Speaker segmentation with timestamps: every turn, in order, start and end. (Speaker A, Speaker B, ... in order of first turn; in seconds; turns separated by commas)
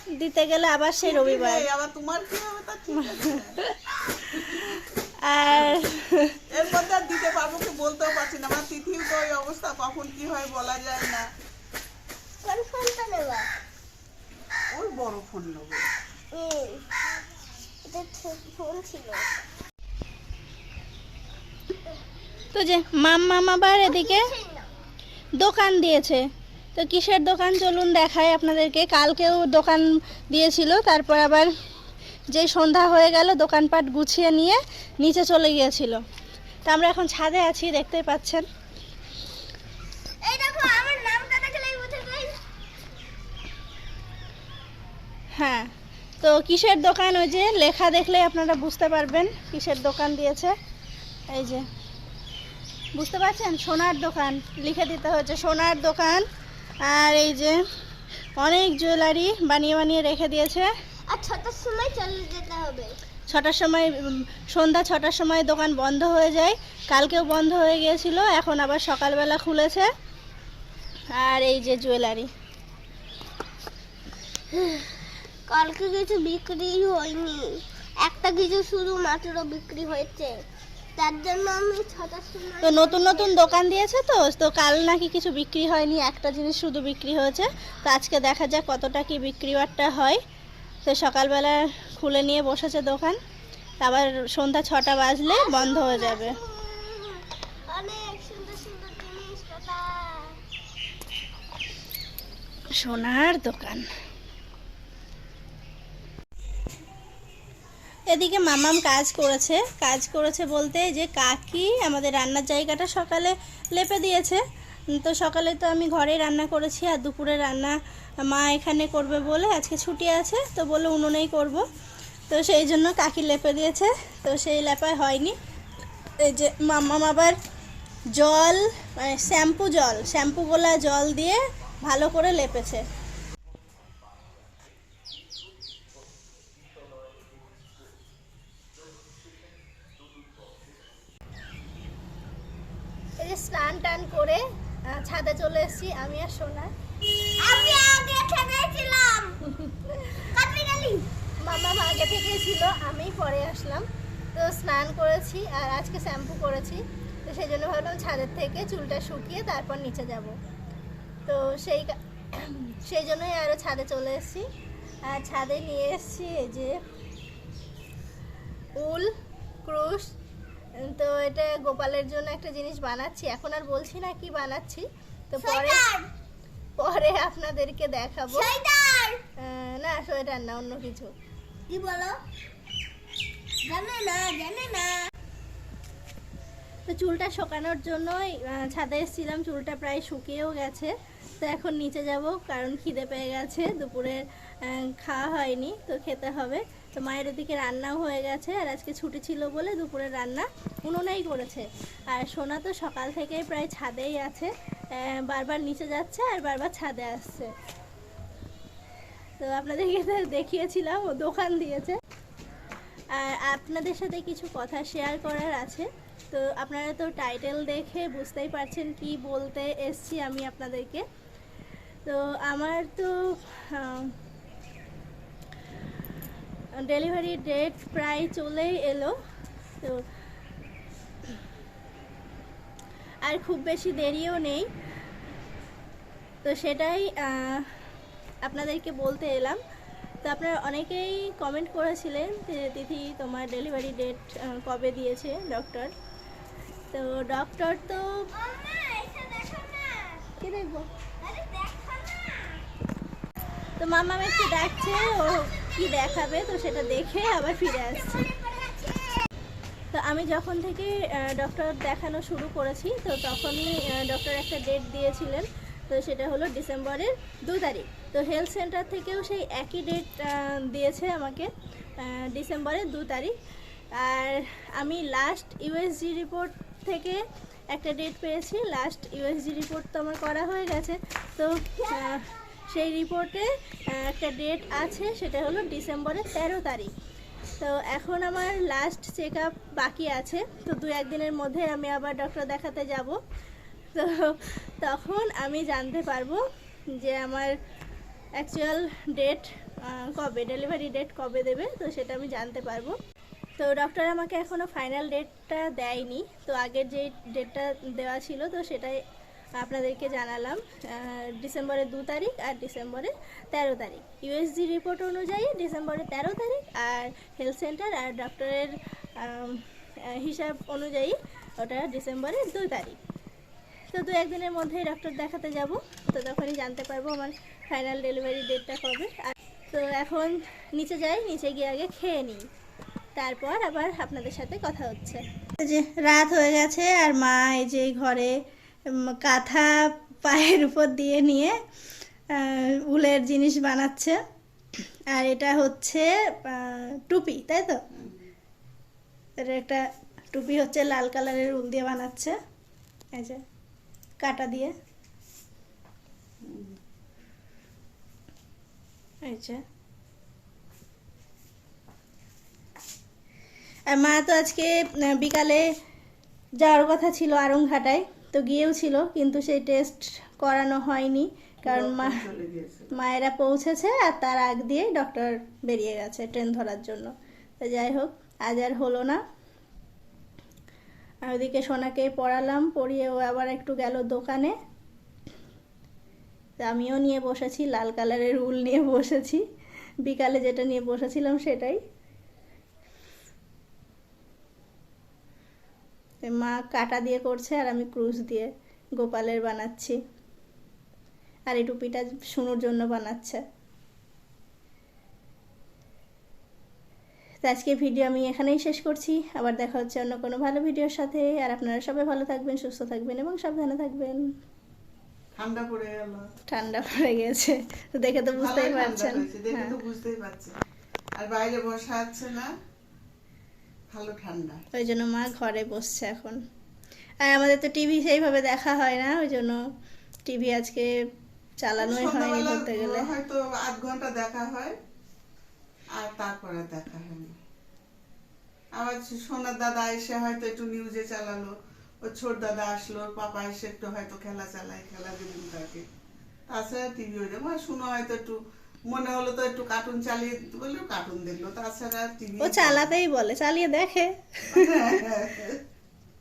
Speaker A: 0.2-1.7, Speaker B: 1.0-3.6, Speaker A: 3.0-6.4, Speaker B: 5.5-5.8, Speaker B: 6.5-11.3, Speaker C: 12.4-13.5, Speaker B: 14.7-15.9, Speaker C: 16.3-16.9, Speaker C: 17.9-19.3, Speaker A: 22.5-24.3, Speaker C: 23.8-24.7, Speaker A: 25.4-26.2, Speaker A: 26.8-31.5, Speaker A: 32.3-36.0, Speaker A: 36.7-38.5, Speaker C: 40.2-42.4, Speaker A: 45.4-50.5, Speaker A: 51.3-51.7, Speaker A: 53.0-56.3, Speaker A: 56.8-57.6, Speaker A: 58.4-60.7, Speaker C: 61.1-63.0, Speaker A: 63.3-69.9, Speaker A: 71.1-72.3, Speaker C: 74.5-80.4, Speaker C: 81.0-83.6, Speaker A: 82.6-90.2, Speaker A: 90.9-93.2, Speaker A: 93.8-96.4, Speaker C: 95.3-100.4, Speaker A: 102.7-103.9, Speaker A: 108.1-114.4, Speaker A: 115.0-121.7, Speaker A: 122.3-125.4, Speaker A: 126.2-127.4, Speaker A: 128.2-132.8, Speaker A: 143.2-146.7, Speaker C: 147.4-149.6, Speaker A: 149.9-150.3, Speaker C: 150.2-151.1, Speaker A: 151.4-153.8, Speaker A: 154.3-160.3, Speaker A: 161.3-164.4, Speaker A: 165.1-166.8, Speaker A: 168.8-169.1, Speaker A: 169.7-170.1, Speaker A: 170.8-175.9, Speaker C: 175.4-176.1, Speaker A: 176.8-178.5, Speaker C: 178.3-179.2, Speaker A: 179.4-181.1, Speaker C: 181.7-182.2, Speaker C: 183.6-185.1, Speaker A: 186.9-207.5, Speaker A: 209.4-212.0, Speaker A: 213.2-221.1, Speaker A: 222.1-224.1, Speaker A: 226.8-229.2, Speaker A: 233.2-234.7, Speaker A: 236.4-237.7, Speaker A: 238.4-239.6, Speaker A: 240.2-245.9, Speaker A: 246.9-248.3, Speaker C: 248.3-250.3, Speaker A: 250.4-250.9, Speaker C: 251.2-252.6, Speaker A: 253.8-258.3, Speaker C: 258.1-259.2, Speaker A: 259.9-273.4, Speaker A: 273.9-277.2, Speaker A: 277.7-286.9, Speaker A: 287.6-293.2, Speaker A: 293.9-296.4, Speaker A: 297.0-297.5, Speaker A: 298.4-303.0, Speaker A: 303.6-309.0, Speaker A: 309.6-323.0, Speaker A: 323.9-332.4, Speaker A: 333.2-338.3, Speaker A: 339.1-341.6, Speaker A: 342.4-344.2, Speaker A: 345.1-347.8, Speaker B: 347.9-348.2, Speaker A: 349.4-349.8, Speaker A: 350.3-352.4, Speaker A: 353.1-353.4, Speaker A: 354.2-354.7, Speaker B: 356.4-356.8, Speaker A: 359.2-359.6, Speaker A: 363.9-365.6, Speaker A: 366.6-372.2, Speaker B: 371.7-372.9, Speaker A: 372.9-379.2, Speaker A: 381.3-384.6, Speaker A: 386.6-389.4, Speaker A: 390.1-391.8, Speaker A: 396.3-400.0, Speaker A: 401.5-403.4, Speaker A: 407.4-414.2, Speaker B: 415.4-416.3, Speaker A: 416.5-419.8, Speaker B: 418.3-420.5, Speaker B: 421.2-422.5, Speaker B: 423.9-424.6, Speaker A: 424.8-426.4, Speaker A: 427.2-429.6, Speaker A: 430.3-430.9, Speaker A: 431.6-433.1, Speaker B: 431.8-434.8, Speaker B: 436.0-437.3, Speaker B: 438.8-445.8, Speaker B: 446.5-448.4, Speaker B: 448.9-452.9, Speaker A: 452.4-455.0, Speaker B: 454.5-455.6